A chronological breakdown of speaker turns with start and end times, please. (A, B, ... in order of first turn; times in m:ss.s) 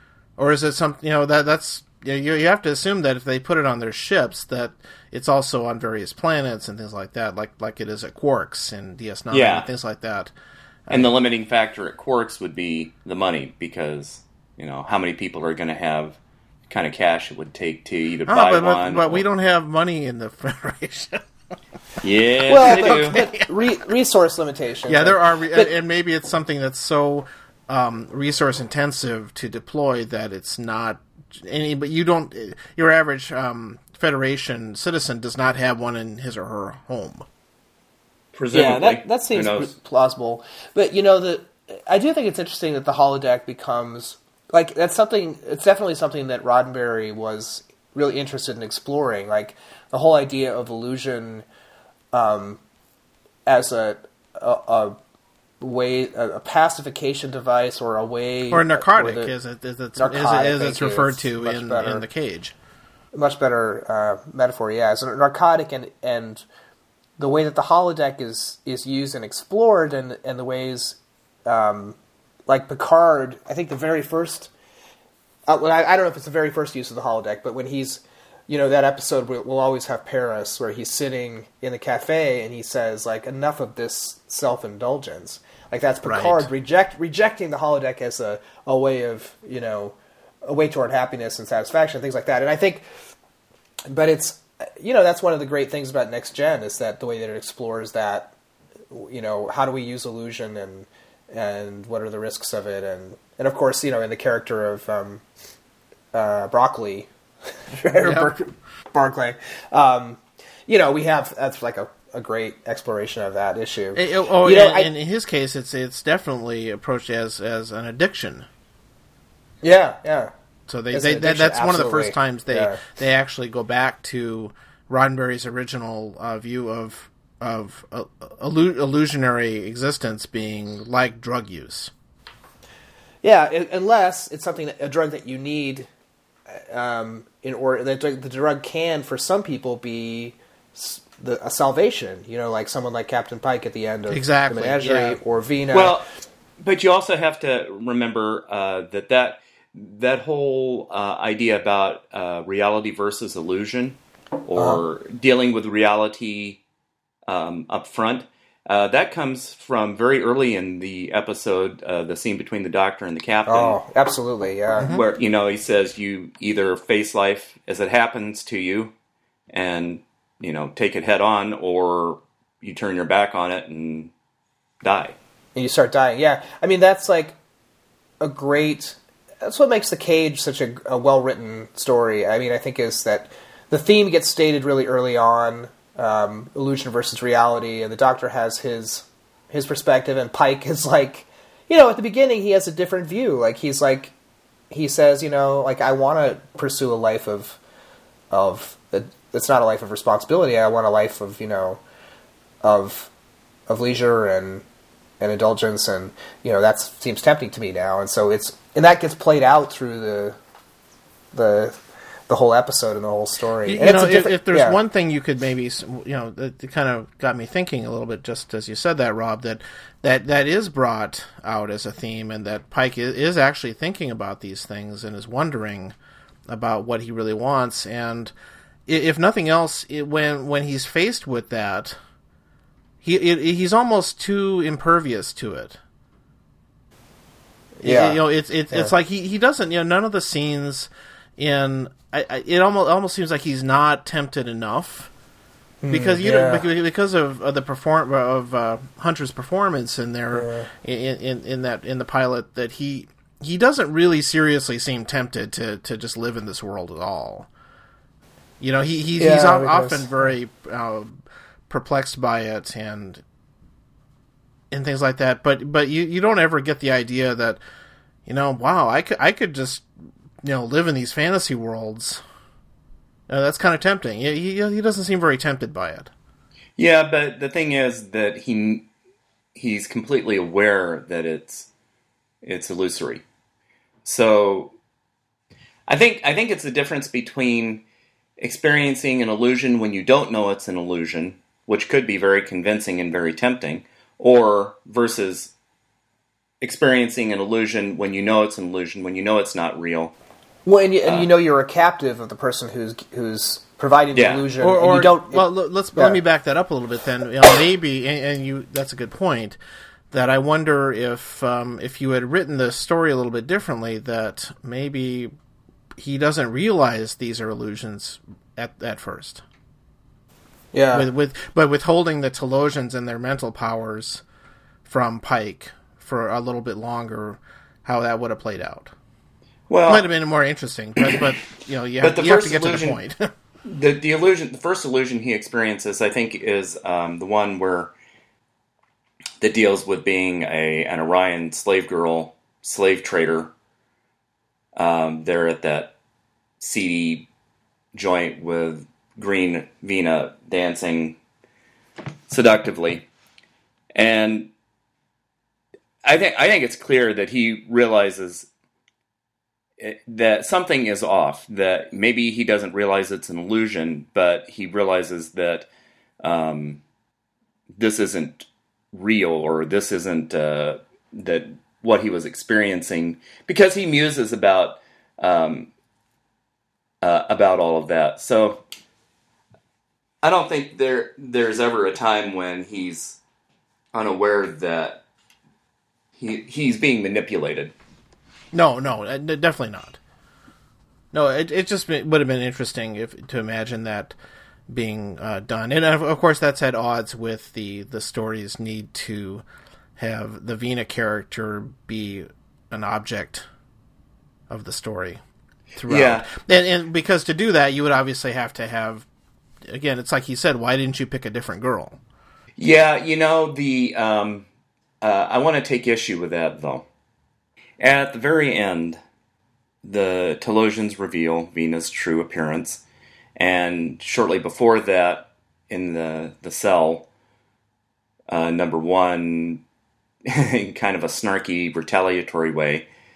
0:00.4-0:10.3 A
0:09.3-0:09.7 B
0:10.9-0:16.2 B
0:16.7-0:19.2 B
0:18.3-0:21.2 A
0:22.0-0:23.3 B
0:22.5-0:25.7 C
0:22.6-0:23.5 A
0:24.9-0:37.2 A
0:38.3-0:39.7 B
0:38.5-0:51.4 C
0:52.1-0:52.6 C
0:53.4-0:55.0 C
0:55.6-0:59.3 C
0:58.5-1:02.5 A
1:00.0-1:02.0 C
1:03.1-1:06.4 C
1:07.2-1:12.0 C
1:12.5-1:14.5 C
1:15.5-1:32.8 C
1:26.0-1:26.5 A
1:33.9-1:38.3 C
1:38.9-1:45.2 C
1:46.1-1:47.1 C
1:47.7-1:54.9 C
1:48.0-1:48.3 A
1:53.9-1:58.5 A
1:59.6-2:00.3 C
2:00.7-2:11.9 A
2:00.9-2:02.8 C
2:13.2-2:15.9 C
2:16.5-2:26.0 C
2:24.1-2:25.2 A
2:25.7-2:26.0 B
2:26.6-2:36.6 B
2:34.6-2:34.8 C
2:37.3-2:43.8 B
2:43.5-2:44.9 C
2:44.9-2:48.9 B
2:49.5-2:54.1 B
2:54.8-2:55.2 B
2:55.5-2:57.4 C
2:58.2-3:14.1 C
3:14.7-3:17.6 C
3:18.3-3:21.8 C
3:22.6-3:23.1 C
3:23.7-3:24.6 C
3:25.2-3:30.4 C
3:31.3-3:34.8 C
3:33.6-3:45.9 A
3:46.5-3:48.3 A
3:48.9-3:52.0 A
3:53.0-3:55.8 A
3:57.8-4:05.1 A
3:57.8-3:58.2 C
4:05.8-4:06.6 C
4:05.9-4:17.5 A
4:10.3-4:10.7 C
4:18.6-4:23.2 A
4:19.2-4:20.1 C
4:24.7-4:27.6 A
4:28.2-4:29.9 A
4:30.4-4:32.2 A
4:33.3-4:36.1 A
4:36.8-4:38.8 B
4:39.5-4:41.7 B
4:42.4-4:43.2 B
4:44.0-4:44.7 B
4:45.9-4:47.8 B
4:48.4-4:55.5 B
4:56.6-5:00.1 B
5:00.6-5:05.4 C
5:01.0-5:01.3 B
5:04.1-5:04.5 B
5:04.6-5:09.6 A
5:10.1-5:15.3 A
5:16.0-5:19.4 A
5:20.7-5:21.0 C
5:20.9-5:24.2 A
5:24.8-5:28.9 A
5:29.7-5:30.1 B
5:29.9-5:33.3 A
5:32.0-5:33.0 B
5:33.6-5:37.9 B
5:39.4-5:43.5 B
5:44.8-5:45.9 B
5:46.6-5:47.3 B
5:47.9-5:51.2 B
5:52.3-5:53.0 B
5:53.9-5:54.5 B
5:56.0-5:58.5 B
5:59.8-6:05.7 B
6:06.2-6:06.8 B
6:07.8-6:15.7 B
6:17.0-6:18.6 B
6:20.2-6:23.2 B
6:23.9-6:25.0 B
6:26.2-6:27.7 B
6:28.5-6:30.0 A
6:31.1-6:34.1 A
6:34.7-6:39.4 A
6:40.0-6:43.4 A
6:44.5-6:45.2 A
6:45.8-6:49.1 A
6:45.9-6:46.3 B
6:49.7-6:52.0 A
6:52.6-6:54.4 B
6:55.0-6:56.8 B
6:57.8-6:59.0 B
6:59.8-7:02.8 B
7:03.4-7:07.0 B
7:08.3-7:09.6 B
7:10.2-7:12.8 B